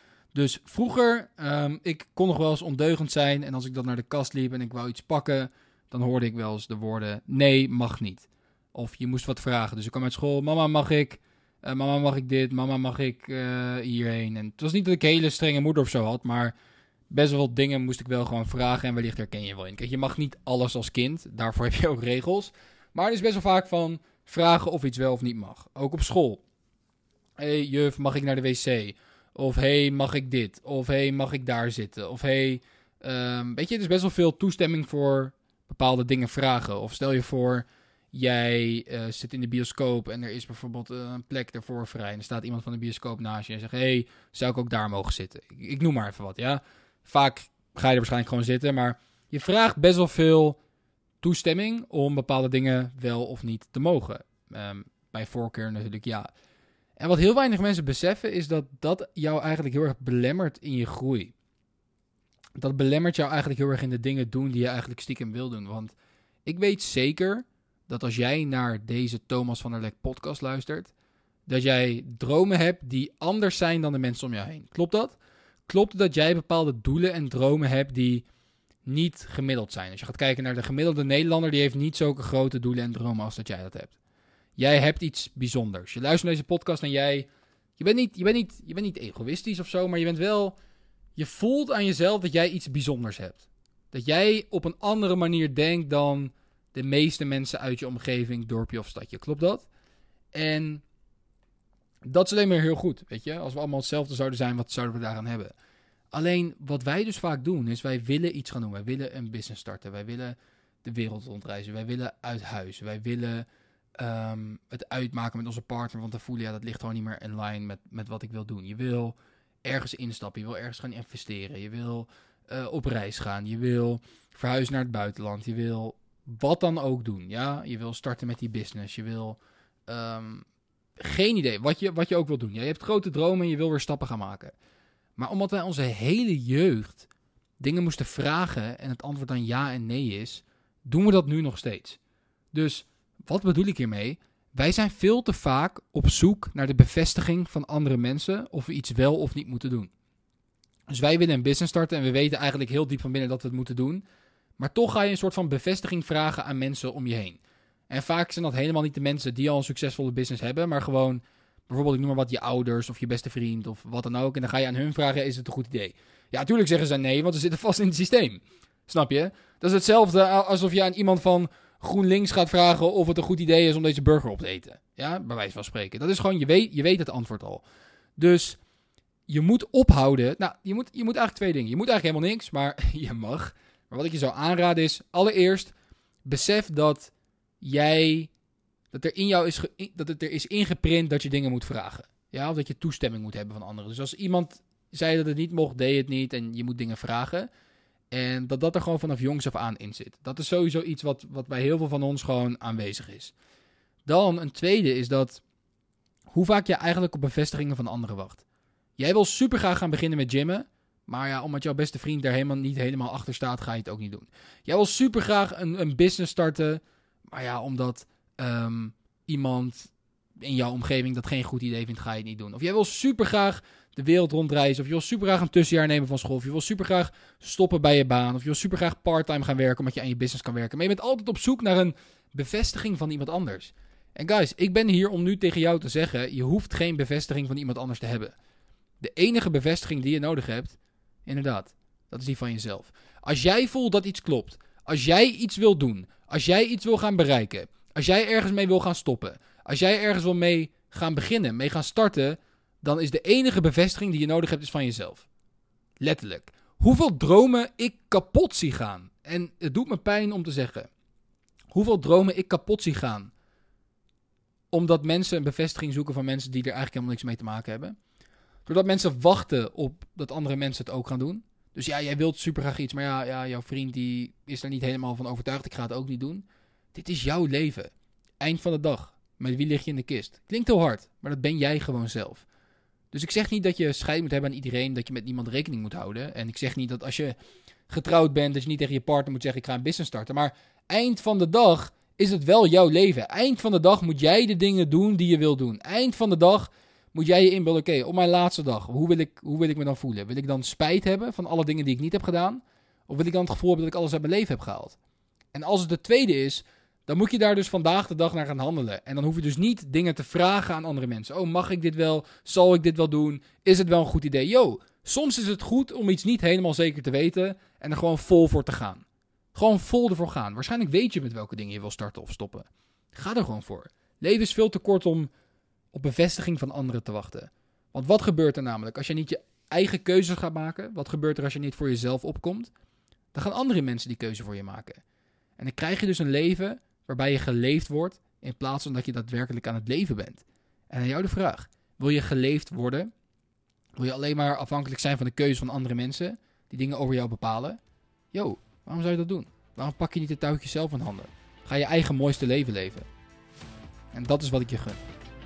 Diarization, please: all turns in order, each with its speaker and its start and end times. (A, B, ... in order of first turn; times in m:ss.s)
0:00.3-0:16.5 A
0:17.1-0:26.4 A
0:27.4-0:50.6 A
0:51.2-0:56.3 A
0:57.0-1:01.3 A
1:02.6-1:10.9 A
1:11.5-1:15.2 A
1:15.7-1:18.2 A
1:18.8-1:24.0 A
1:24.6-1:30.6 A
1:31.2-1:39.7 A
1:40.3-1:40.8 A
1:42.0-1:45.5 A
1:46.1-1:53.4 A
1:54.0-2:10.4 A
2:11.0-2:14.5 A
2:15.2-2:17.1 A
2:17.6-2:22.0 A
2:22.5-2:29.9 A
2:30.9-2:34.0 A
2:34.6-2:57.6 A
2:58.2-2:58.6 A
2:59.3-3:05.7 A
3:06.2-3:08.3 A
3:08.9-3:17.5 A
3:18.1-3:23.3 A
3:24.0-3:25.4 A
3:26.3-3:28.4 A
3:29.0-3:58.3 A
3:59.0-4:15.3 A
4:16.0-4:20.9 A
4:21.7-4:23.3 A
4:24.7-4:28.0 A
4:28.6-4:42.4 A
4:43.1-4:47.4 A
4:47.9-5:05.0 A
5:05.5-5:25.3 A
5:25.9-5:32.7 A
5:33.3-5:35.0 A
5:35.6-5:43.1 A
5:44.0-5:47.8 A
5:48.3-5:53.1 A
5:54.1-5:55.0 A